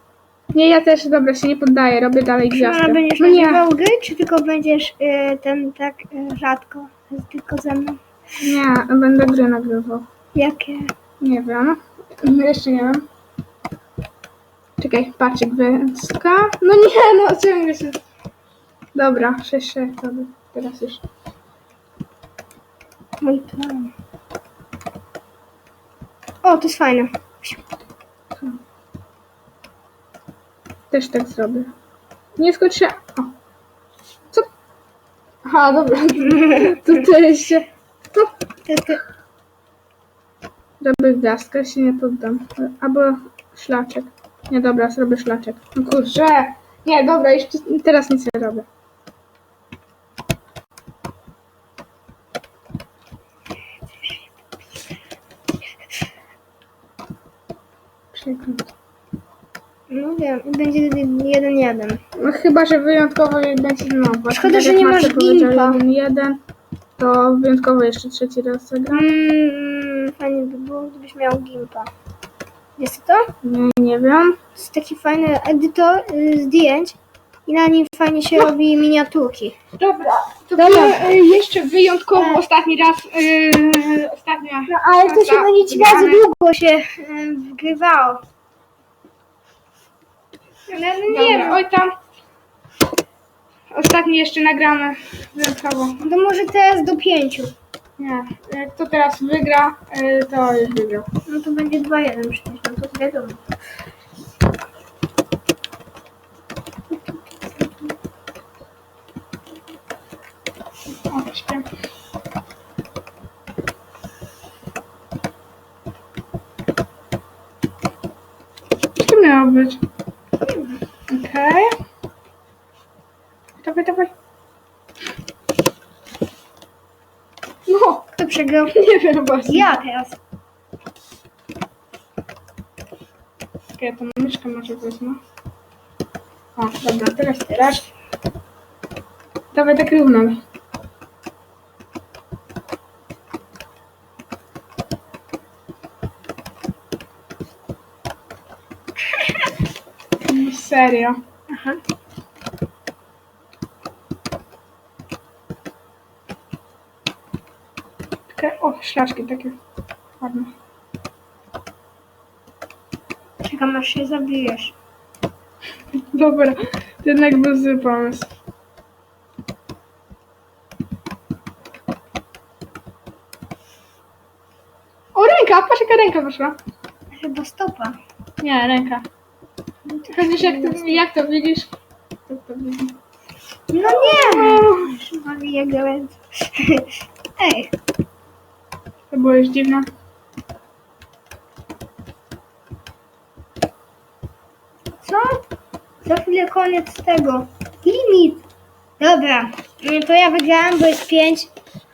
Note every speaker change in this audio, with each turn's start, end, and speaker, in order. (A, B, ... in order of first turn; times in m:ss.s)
0:00.5-0:03.6 A
0:02.5-0:08.0 B
0:08.4-0:10.0 A
0:10.3-0:10.9 B
0:11.2-0:13.0 A
0:14.8-0:18.0 A
0:18.9-0:21.0 A
0:23.2-0:23.9 B
0:26.4-0:27.6 B
0:30.9-0:31.7 A
0:32.4-0:33.3 A
0:35.4-0:38.3 A
0:38.7-0:39.0 B
0:40.8-0:48.7 A
0:58.1-0:58.7 A
0:59.9-1:02.0 B
1:02.2-1:06.4 A
1:04.3-1:05.8 B
1:07.0-1:09.1 A
1:08.9-1:11.9 B
1:12.8-1:13.3 B
1:13.4-1:14.4 A
1:14.6-1:19.6 B
1:19.8-1:26.2 A
1:20.6-1:21.4 B
1:22.2-1:22.4 B
1:24.7-1:28.2 B
1:30.7-1:31.6 B
1:31.1-1:31.9 A
1:33.7-1:36.0 A
1:36.0-1:37.5 B
1:38.0-1:41.1 A
1:41.3-1:43.4 B
1:51.0-1:51.6 A
1:59.0-1:59.8 A
2:01.1-2:01.7 A
2:03.6-2:04.1 A
2:07.7-2:08.1 A
2:08.2-2:08.8 B
2:08.7-2:09.7 A
2:09.4-2:10.2 B
2:13.8-2:15.2 A
2:16.6-2:17.8 A
2:19.5-2:20.4 A
2:30.2-2:31.2 A
2:31.5-2:31.8 B
2:38.3-2:39.6 A
2:40.2-2:40.5 A
2:43.4-2:44.7 B
2:46.1-2:48.3 A
2:55.1-2:56.6 A
2:57.2-2:58.0 B
2:58.4-2:59.0 A
2:59.9-3:01.7 A
3:00.1-3:01.0 B
3:02.3-3:02.9 A
3:03.7-3:07.7 B
3:03.8-3:04.9 A
3:09.1-3:09.9 A
3:15.0-3:15.4 B
3:16.0-3:18.4 B
3:19.0-3:21.5 B